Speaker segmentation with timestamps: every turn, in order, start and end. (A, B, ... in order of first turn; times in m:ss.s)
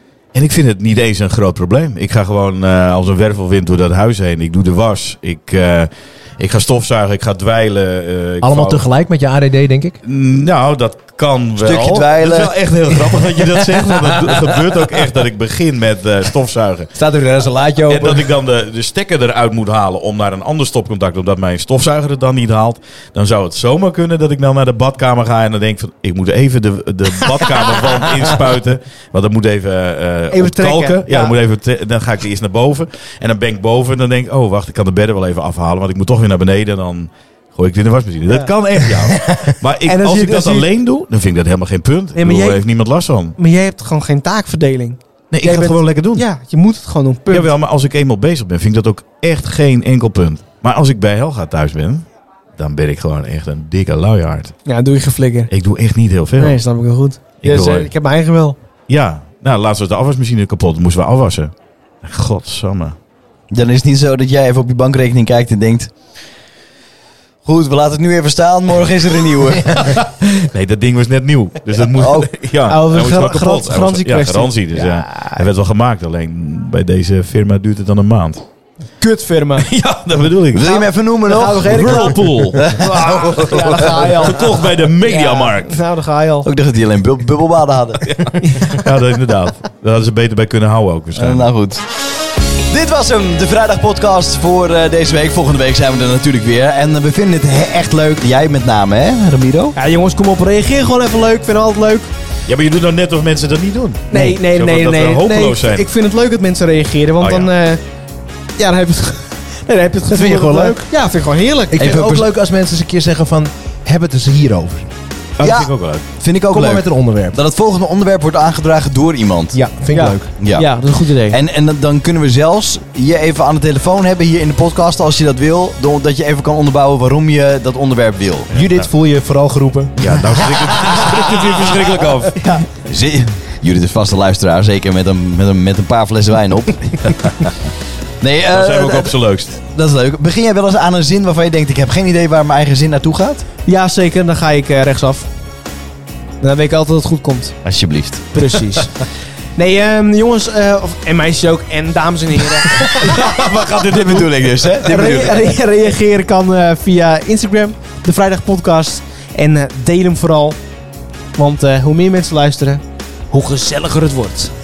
0:00.3-0:08.8 A
0:08.4-0:10.0 B
0:10.0-0:16.9 A
0:11.6-0:12.5 C
0:13.7-0:14.6 B
0:16.9-0:18.3 B
0:17.9-0:43.4 A
0:30.3-0:31.4 D
0:38.3-0:38.5 D
0:39.1-0:39.3 D
0:39.8-0:40.7 D
0:42.2-0:42.6 D
0:43.4-0:47.5 D
0:45.3-0:46.2 A
0:47.3-0:54.6 A
0:54.6-0:55.5 D
0:55.5-0:56.6 A
0:56.4-0:58.6 D
0:57.4-0:57.9 A
0:58.9-1:02.9 A
1:03.5-1:05.9 C
1:07.4-1:09.9 C
1:09.6-1:18.4 A
1:11.9-1:12.3 C
1:12.6-1:15.5 D
1:19.0-1:19.7 D
1:19.6-1:20.8 A
1:20.5-1:24.2 C
1:20.7-1:26.5 D
1:21.6-1:25.8 A
1:26.4-1:28.3 C
1:28.1-1:31.5 A
1:28.4-1:28.8 D
1:31.2-1:31.8 C
1:32.6-1:39.8 C
1:39.7-1:42.1 D
1:42.5-1:45.8 A
1:44.1-1:47.8 D
1:47.2-1:47.5 A
1:48.6-1:51.9 D
1:50.0-1:50.8 B
1:51.7-1:54.9 B
1:51.8-1:52.3 C
1:55.4-1:56.0 A
1:55.4-1:59.6 C
1:56.5-1:57.4 B
1:59.5-2:00.3 B
1:59.9-2:01.4 D
2:00.4-2:00.7 C
2:01.3-2:08.5 C
2:08.5-2:08.9 A
2:08.5-2:10.9 B
2:10.0-2:12.4 A
2:12.4-2:12.6 D
2:12.7-2:17.5 C
2:17.0-2:17.3 A
2:18.2-2:23.4 C
2:18.5-2:19.6 A
2:23.6-2:25.3 D
2:26.4-2:27.6 D
2:27.6-2:28.5 C
2:28.3-2:33.5 D
2:32.9-2:34.8 A
2:33.2-2:35.5 C
2:34.8-2:40.6 D
2:41.4-2:44.5 D